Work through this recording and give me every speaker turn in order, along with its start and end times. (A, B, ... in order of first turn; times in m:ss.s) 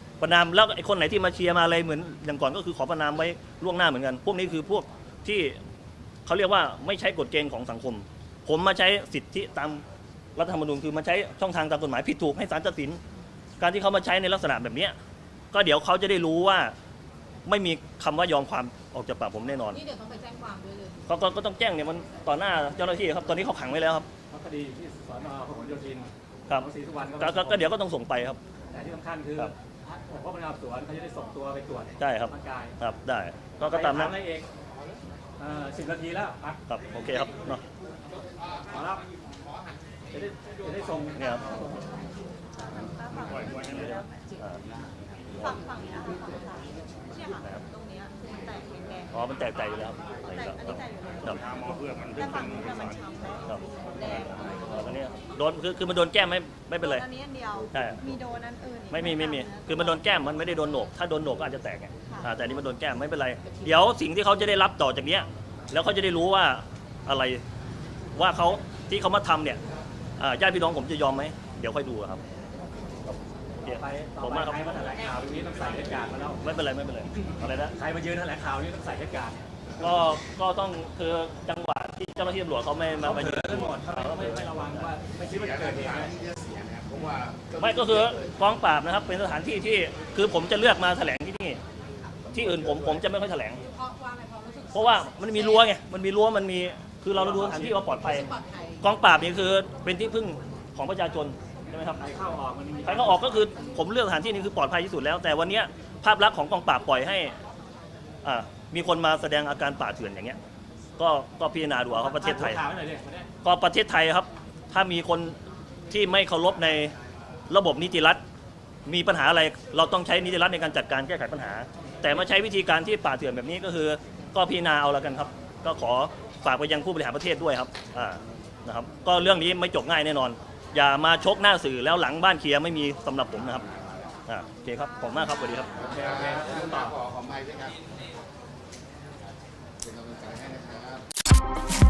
0:00.2-0:05.6 A
0:06.2-0:09.8 A
0:10.4-0:13.0 A
0:13.6-0:14.9 A
0:15.5-0:16.7 A
0:17.4-0:19.8 A
0:19.7-0:21.0 B
0:21.1-0:24.1 A
0:24.3-0:27.7 C
0:26.5-0:28.4 A
0:28.7-0:32.8 C
0:32.0-0:34.1 A
0:33.6-0:34.5 C
0:35.4-0:36.6 C
0:36.7-0:37.6 A
0:38.6-0:39.0 C
0:40.1-0:41.9 C
0:41.2-0:41.7 A
0:42.7-0:44.1 D
0:43.6-0:44.6 A
0:45.3-0:45.6 A
0:45.4-0:48.9 D
0:47.3-0:47.6 A
0:49.1-0:51.4 A
0:51.4-0:53.4 D
0:53.4-0:57.1 A
0:57.1-0:57.6 D
0:57.7-0:58.0 A
0:58.1-0:58.9 D
0:58.9-1:07.4 A
1:08.1-1:09.6 A
1:10.2-1:12.2 A
1:13.0-1:14.9 A
1:13.6-1:16.4 C
1:16.4-1:17.7 A
1:17.7-1:19.5 C
1:19.8-1:24.9 A
1:23.0-1:26.1 C
1:25.2-1:28.1 E
1:27.6-1:31.6 A
1:32.3-1:33.6 A
1:33.6-1:35.0 B
1:34.7-1:38.3 A
1:37.1-1:38.2 C
1:38.2-1:38.8 B
1:38.8-1:42.0 A
1:42.0-1:43.5 C
1:42.8-1:47.4 A
1:48.2-1:50.4 A
1:51.0-1:52.6 A
1:51.9-1:53.3 C
1:53.4-1:55.4 A
1:55.9-1:56.9 A
1:57.5-1:58.2 A
1:58.8-2:13.6 A
2:14.3-2:15.7 A
2:15.7-2:17.8 E
2:15.8-2:17.0 C
2:19.8-2:21.0 E